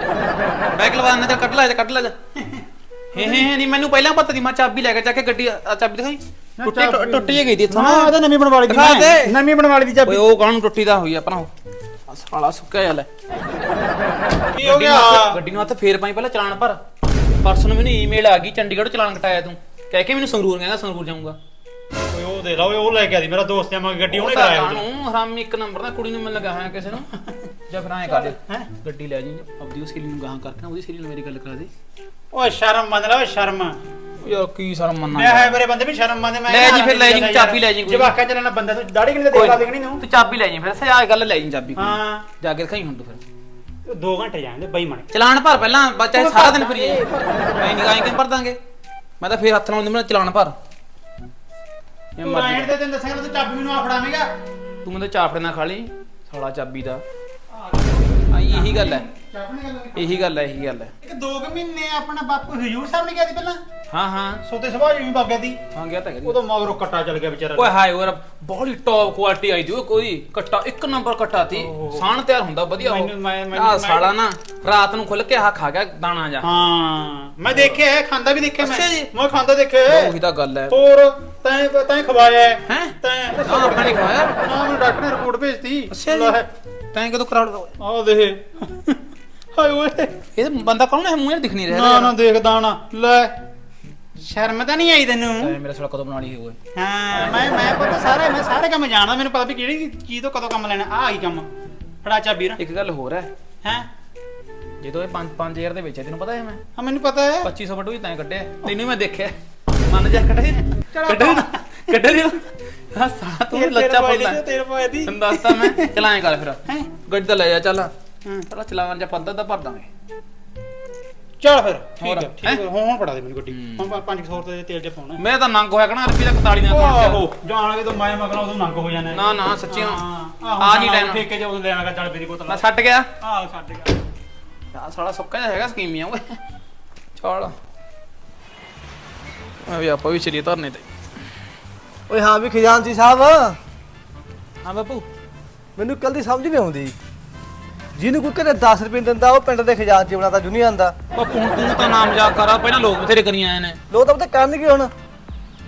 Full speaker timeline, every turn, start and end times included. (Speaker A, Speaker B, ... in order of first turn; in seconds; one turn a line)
Speaker A: 0.8-2.1
Speaker B: 2.4-3.5
Speaker A: 3.1-8.1
Speaker B: 6.6-10.2
Speaker A: 8.7-9.3
Speaker A: 10.1-11.5
Speaker A: 12.1-13.1
Speaker B: 14.5-15.4
Speaker A: 14.6-16.8
Speaker A: 17.4-21.4
Speaker B: 22.1-24.9
Speaker A: 24.1-27.1
Speaker A: 27.7-31.7
Speaker B: 28.1-28.7
Speaker B: 32.3-33.8
Speaker A: 34.2-35.6
Speaker B: 35.1-40.0
Speaker A: 36.5-38.1
Speaker A: 39.3-43.2
Speaker B: 41.8-42.3
Speaker B: 43.9-45.1
Speaker A: 45.1-47.0
Speaker B: 46.1-48.1
Speaker A: 47.6-48.6
Speaker A: 49.2-50.5
Speaker A: 52.2-52.7
Speaker B: 52.2-54.3
Speaker A: 54.9-57.0
Speaker B: 57.5-60.2
Speaker A: 58.3-59.1
Speaker A: 60.0-60.9
Speaker B: 61.0-63.6
Speaker A: 63.9-64.4
Speaker B: 64.5-65.6
Speaker A: 65.7-66.4
Speaker B: 66.2-67.7
Speaker A: 67.5-76.5
Speaker B: 71.5-72.1
Speaker B: 72.8-74.1
Speaker B: 76.4-80.2
Speaker A: 78.6-79.1
Speaker A: 79.8-80.8
Speaker B: 80.7-86.5
Speaker A: 82.7-84.4
Speaker A: 85.9-86.4
Speaker A: 86.9-87.7
Speaker B: 87.8-89.0
Speaker B: 89.5-90.2
Speaker A: 90.3-92.2
Speaker B: 91.7-93.3
Speaker B: 94.2-95.6
Speaker A: 95.3-96.6
Speaker B: 96.8-101.5
Speaker B: 102.0-102.6
Speaker A: 102.6-103.3
Speaker A: 104.8-106.6
Speaker B: 106.8-107.5
Speaker A: 107.4-109.3
Speaker A: 109.9-114.4
Speaker B: 110.9-111.9
Speaker B: 113.5-115.9
Speaker A: 115.0-117.9
Speaker A: 118.5-119.9
Speaker B: 121.4-125.2
Speaker A: 122.0-122.6
Speaker A: 123.5-124.0
Speaker A: 125.2-127.2
Speaker B: 126.7-132.6
Speaker A: 129.1-130.0
Speaker A: 130.6-131.2
Speaker A: 132.5-133.1
Speaker B: 133.2-134.0
Speaker A: 134.7-136.4
Speaker A: 137.2-137.5
Speaker A: 139.7-140.9
Speaker C: 142.1-143.6
Speaker A: 144.6-145.1
Speaker C: 145.8-146.9
Speaker C: 148.0-150.9
Speaker A: 151.2-153.8
Speaker C: 153.9-154.9